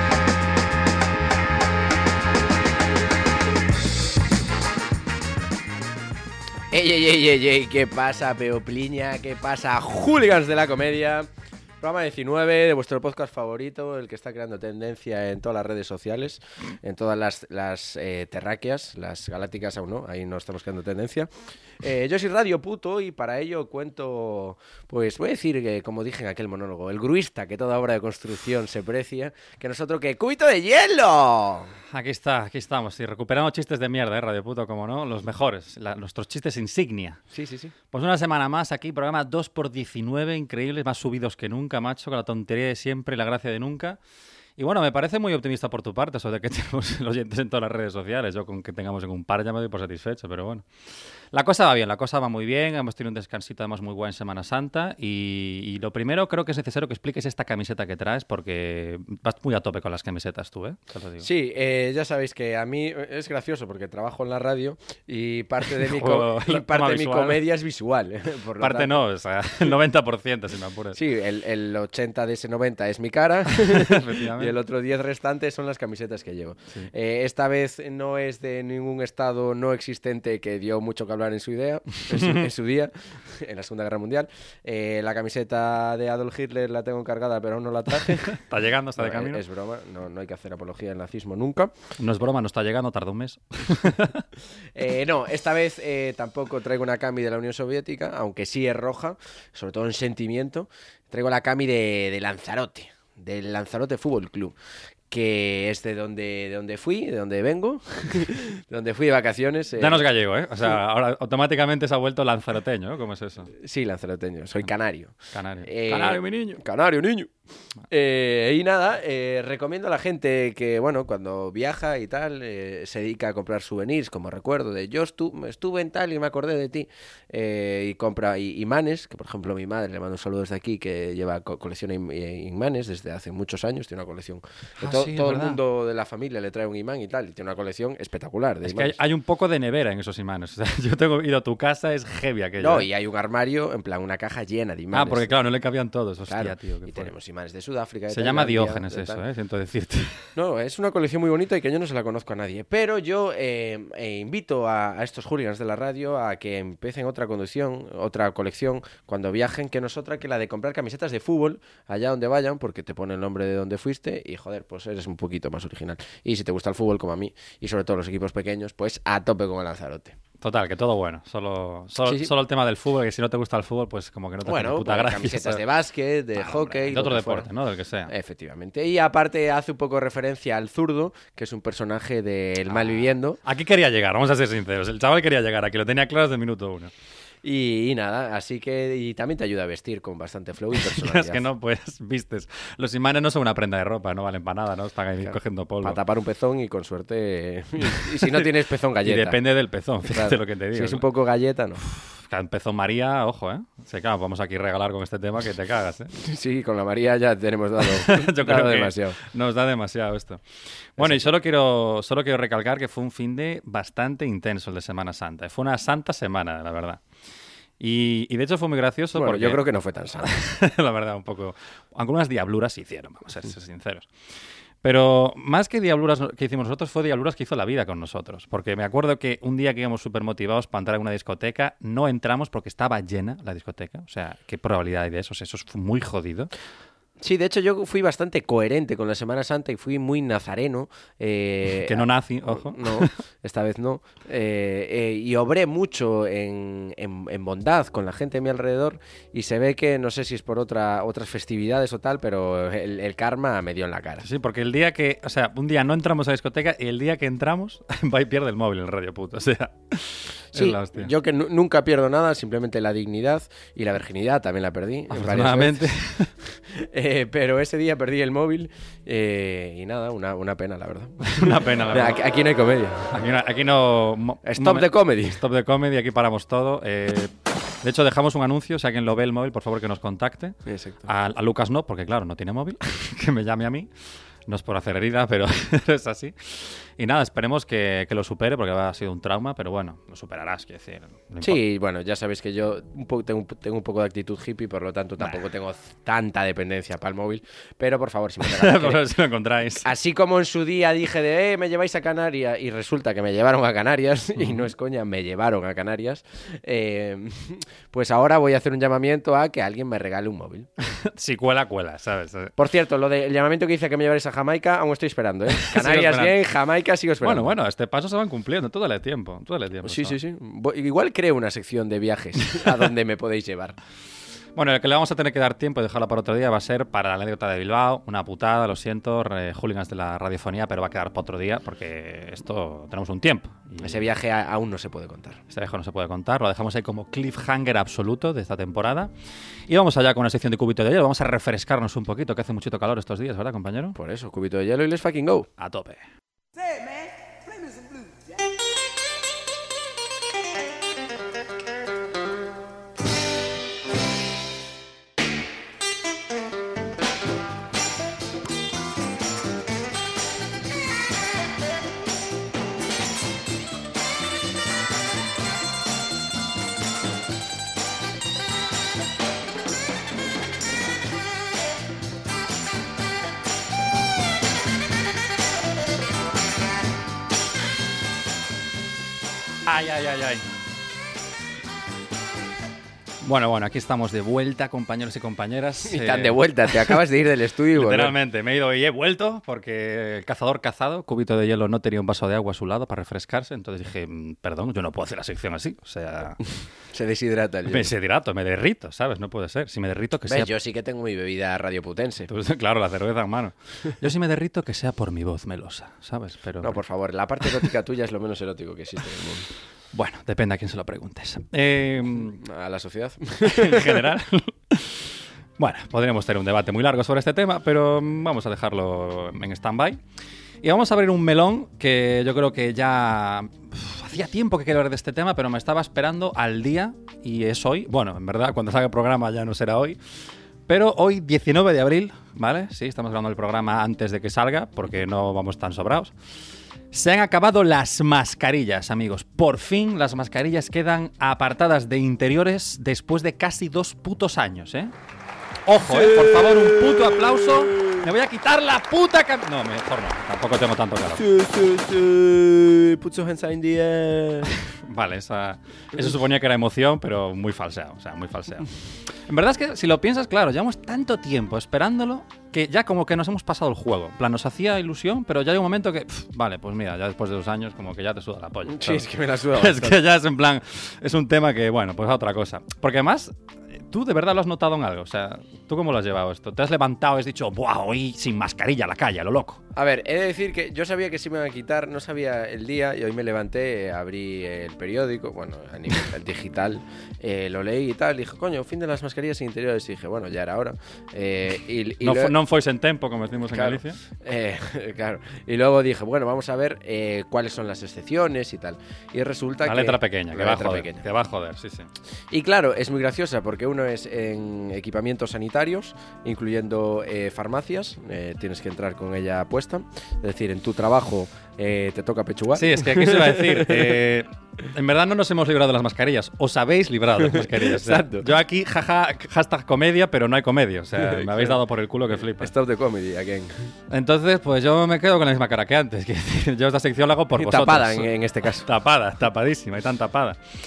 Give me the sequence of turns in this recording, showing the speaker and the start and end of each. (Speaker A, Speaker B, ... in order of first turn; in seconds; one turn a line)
Speaker A: 6.7-11.3
Speaker A: 11.8-21.3
Speaker A: 21.8-31.7
Speaker B: 31.9-37.2
Speaker A: 37.3-37.7
Speaker B: 37.9-44.0
Speaker B: 44.6-50.7
Speaker B: 51.3-61.3
Speaker A: 61.2-68.9
Speaker B: 65.7-67.4
Speaker B: 68.6-71.0
Speaker A: 70.9-88.4
Speaker B: 73.5-74.6
Speaker B: 82.1-82.5
Speaker B: 88.0-89.4
Speaker A: 89.0-91.7
Speaker B: 92.0-94.2
Speaker A: 94.8-104.5
Speaker A: 105.1-110.0
Speaker B: 109.8-113.5
Speaker A: 113.6-117.3
Speaker B: 115.3-116.6
Speaker A: 117.9-139.0
Speaker B: 134.8-135.6
Speaker B: 138.6-142.9
Speaker A: 142.6-145.3
Speaker B: 144.9-147.1
Speaker A: 146.3-149.2
Speaker B: 148.1-150.2
Speaker A: 150.4-170.2
Speaker B: 170.4-175.6
Speaker A: 172.1-172.3
Speaker A: 174.4-177.5
Speaker B: 176.4-178.1
Speaker A: 178.1-183.4
Speaker B: 182.7-186.9
Speaker A: 187.4-191.5
Speaker B: 190.7-196.0
Speaker A: 195.2-199.4
Speaker B: 197.9-198.5
Speaker B: 199.0-201.1
Speaker A: 200.1-201.8
Speaker B: 201.8-206.1
Speaker A: 206.2-209.2
Speaker B: 207.8-210.4
Speaker B: 211.0-217.0
Speaker A: 211.0-211.3
Speaker B: 217.8-219.6
Speaker A: 219.2-220.4
Speaker B: 220.2-224.1
Speaker B: 224.8-236.5
Speaker A: 237.2-254.2
Speaker B: 241.7-243.1
Speaker B: 254.2-261.1
Speaker A: 260.5-265.9
Speaker B: 265.1-266.3
Speaker A: 266.7-273.1
Speaker B: 271.2-272.2
Speaker B: 273.1-283.9
Speaker A: 274.4-275.4
Speaker A: 280.7-281.1
Speaker B: 284.5-291.6
Speaker A: 291.4-299.0
Speaker B: 295.2-295.4
Speaker B: 298.4-299.9
Speaker A: 299.8-310.7
Speaker B: 304.4-304.7
Speaker B: 311.0-312.5
Speaker A: 312.6-317.6
Speaker B: 315.6-316.4
Speaker B: 317.2-320.2
Speaker A: 319.8-323.8
Speaker B: 324.6-334.1
Speaker A: 333.8-335.4
Speaker B: 335.5-339.1
Speaker B: 339.7-344.0
Speaker A: 344.0-345.5
Speaker B: 345.6-346.0
Speaker B: 379.6-380.5
Speaker B: 383.2-387.0
Speaker A: 385.9-388.1
Speaker B: 387.7-396.4
Speaker A: 396.9-397.9
Speaker B: 397.7-400.5
Speaker A: 400.3-402.3
Speaker B: 402.3-406.8
Speaker A: 406.6-409.5
Speaker B: 409.9-412.4
Speaker A: 412.4-414.1
Speaker B: 413.4-420.0
Speaker B: 420.6-430.0
Speaker B: 430.7-436.1
Speaker B: 436.9-444.9
Speaker B: 445.7-451.2
Speaker A: 445.8-448.1
Speaker A: 451.2-454.6
Speaker B: 454.7-479.6
Speaker A: 468.7-470.0
Speaker A: 479.8-492.4
Speaker B: 492.0-494.0
Speaker A: 493.5-501.0
Speaker B: 499.6-501.9
Speaker A: 502.3-513.9
Speaker B: 512.5-522.5
Speaker A: 517.2-518.3
Speaker A: 521.0-521.5
Speaker A: 522.4-523.5
Speaker B: 523.9-530.4
Speaker A: 527.4-528.7